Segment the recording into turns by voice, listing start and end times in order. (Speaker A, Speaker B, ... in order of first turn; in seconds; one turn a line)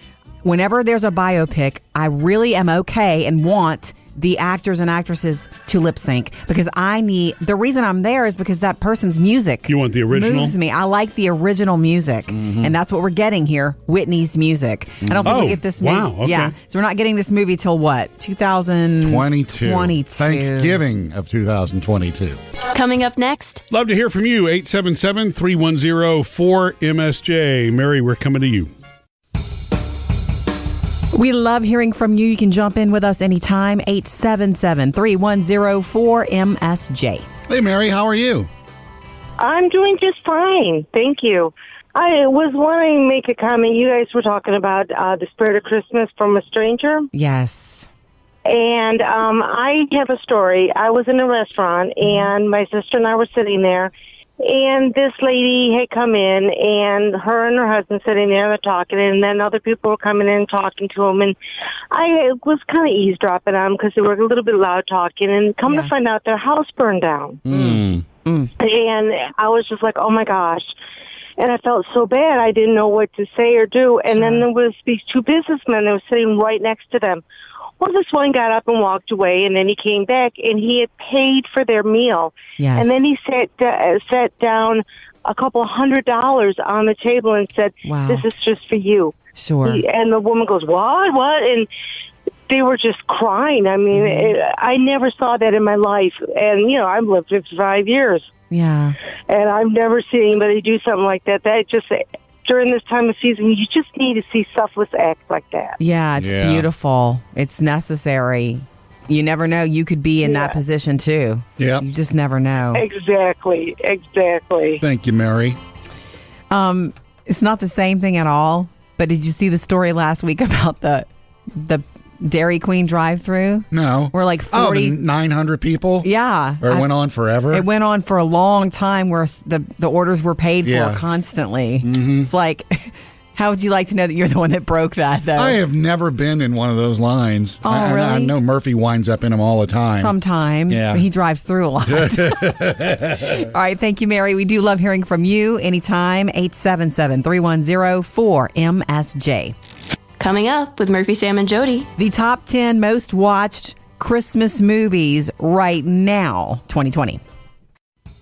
Speaker A: 0.4-20.8
Speaker B: 9.7-10.6
Speaker C: 12.3-12.8
Speaker C: 15.0-15.6
Speaker B: 15.2-16.5
Speaker C: 19.0-22.4
Speaker D: 22.7-23.6
Speaker B: 23.7-28.7
Speaker A: 31.1-37.2
Speaker C: 37.5-38.5
Speaker E: 39.4-47.1
Speaker A: 47.1-47.9
Speaker E: 48.5-61.4
Speaker E: 61.9-67.4
Speaker A: 65.6-65.9
Speaker C: 67.5-68.0
Speaker A: 67.5-68.5
Speaker E: 68.6-70.7
Speaker E: 71.4-77.2
Speaker A: 74.1-74.5
Speaker E: 77.8-91.7
Speaker A: 82.6-83.0
Speaker A: 87.8-88.2
Speaker A: 89.3-89.8
Speaker E: 92.5-98.3
Speaker A: 93.9-94.3
Speaker A: 98.5-99.0
Speaker E: 99.3-105.8
Speaker A: 105.8-112.8
Speaker C: 106.2-106.7
Speaker E: 110.2-110.6
Speaker C: 111.6-111.8
Speaker E: 112.7-114.8
Speaker C: 114.8-115.6
Speaker A: 116.5-125.0
Speaker C: 123.7-126.1
Speaker A: 126.0-126.9
Speaker C: 126.6-127.7
Speaker A: 127.5-135.6
Speaker C: 130.6-131.0
Speaker C: 131.8-132.3
Speaker C: 135.3-140.1
Speaker A: 137.6-138.3
Speaker A: 140.0-142.6
Speaker C: 140.7-141.1
Speaker C: 141.9-143.5
Speaker A: 143.2-149.5
Speaker D: 150.2-151.9
Speaker A: 152.0-157.2